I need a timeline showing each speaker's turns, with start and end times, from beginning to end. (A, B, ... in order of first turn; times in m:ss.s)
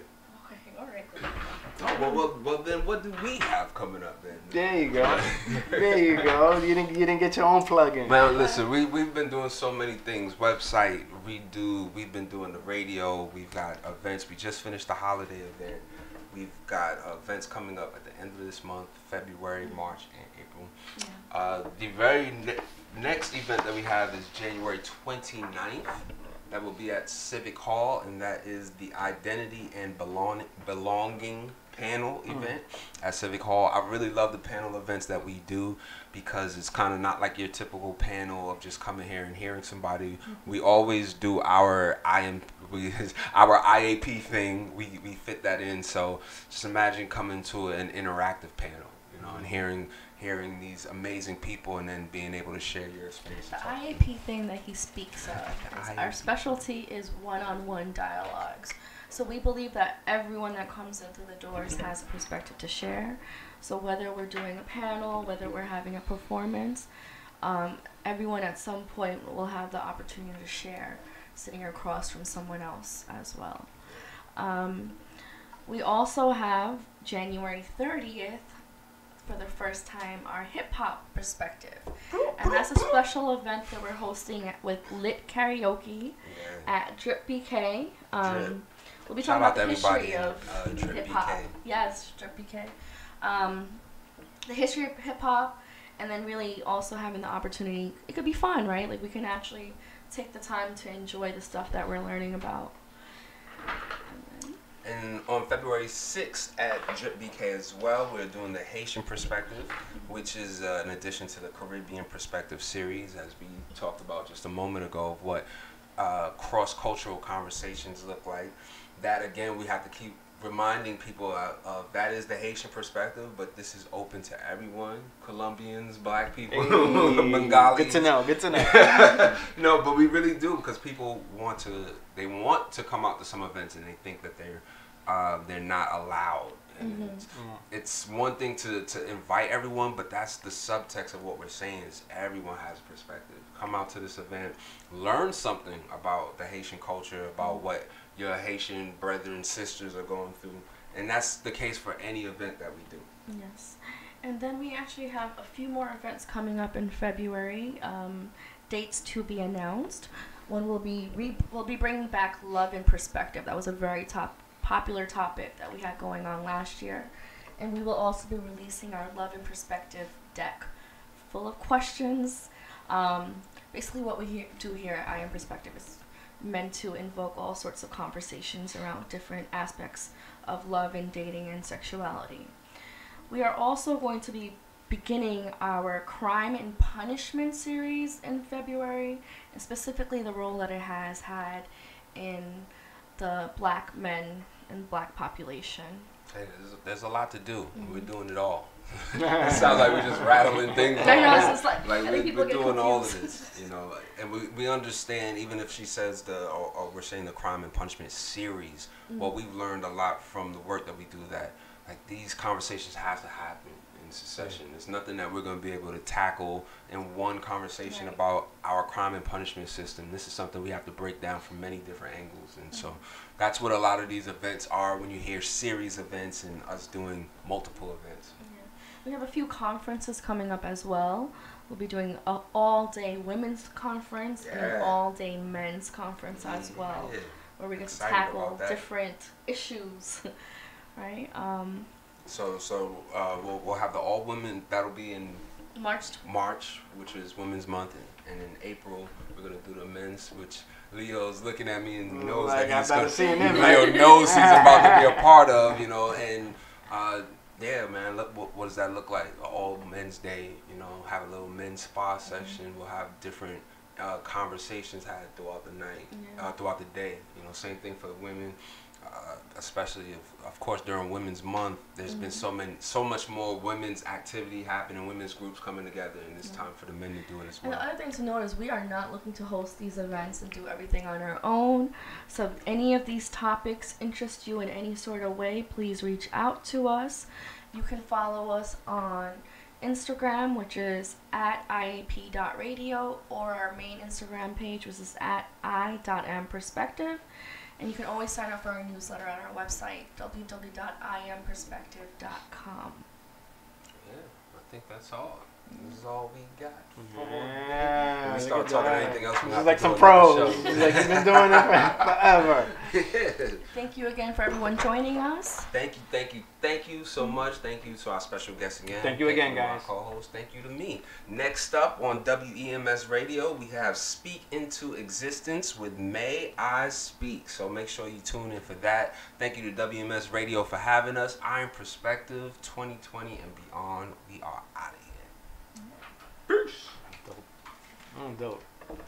0:00.2-0:02.2 A
0:01.7-0:06.2 B
0:04.5-0:08.2 C
0:08.0-0:20.7 B
0:08.3-0:08.6 A
0:21.0-0:21.2 A
0:21.3-0:54.0 B
0:53.5-1:06.9 A
0:55.2-0:56.6 B
1:07.4-1:13.7 A
1:14.3-1:15.0 A
1:15.6-1:18.6 A
1:19.2-1:33.8 A
1:22.1-1:23.0 B
1:26.2-1:26.7 B
1:28.2-1:28.6 B
1:29.2-1:31.5 B
1:34.4-1:42.8 A
1:44.0-1:44.6 A
1:44.8-1:55.4 B
1:56.0-2:33.1 B
2:06.5-2:09.2 C
2:16.8-2:17.2 A
2:17.3-2:17.6 C
2:33.3-3:02.5 A
3:03.3-3:16.1 A
3:16.3-3:48.4 B
3:17.7-3:18.1 A
3:19.2-3:19.7 C
3:20.9-3:23.7 A
3:21.2-3:21.4 C
3:29.1-3:29.3 A
3:37.9-3:38.2 A
3:42.7-3:43.0 A
3:48.4-4:00.3 A
3:54.4-3:55.0 B
3:56.3-3:58.8 B
4:01.0-4:01.9 A
4:02.2-4:05.4 B
4:05.7-4:06.2 A
4:06.2-4:37.8 B
4:12.0-4:15.3 C
4:13.2-4:14.1 A
4:22.3-4:22.6 A
4:26.1-4:26.5 A
4:32.1-4:32.4 A
4:37.6-4:57.2 A
4:57.8-5:03.0 A
5:04.0-5:13.6 B
5:05.7-5:06.0 A
5:07.0-5:12.8 C
5:13.7-5:15.7 A
5:15.7-5:35.3 B
5:19.0-5:19.9 C
5:36.5-5:36.9 B
5:37.0-5:37.5 C
5:38.1-5:38.7 C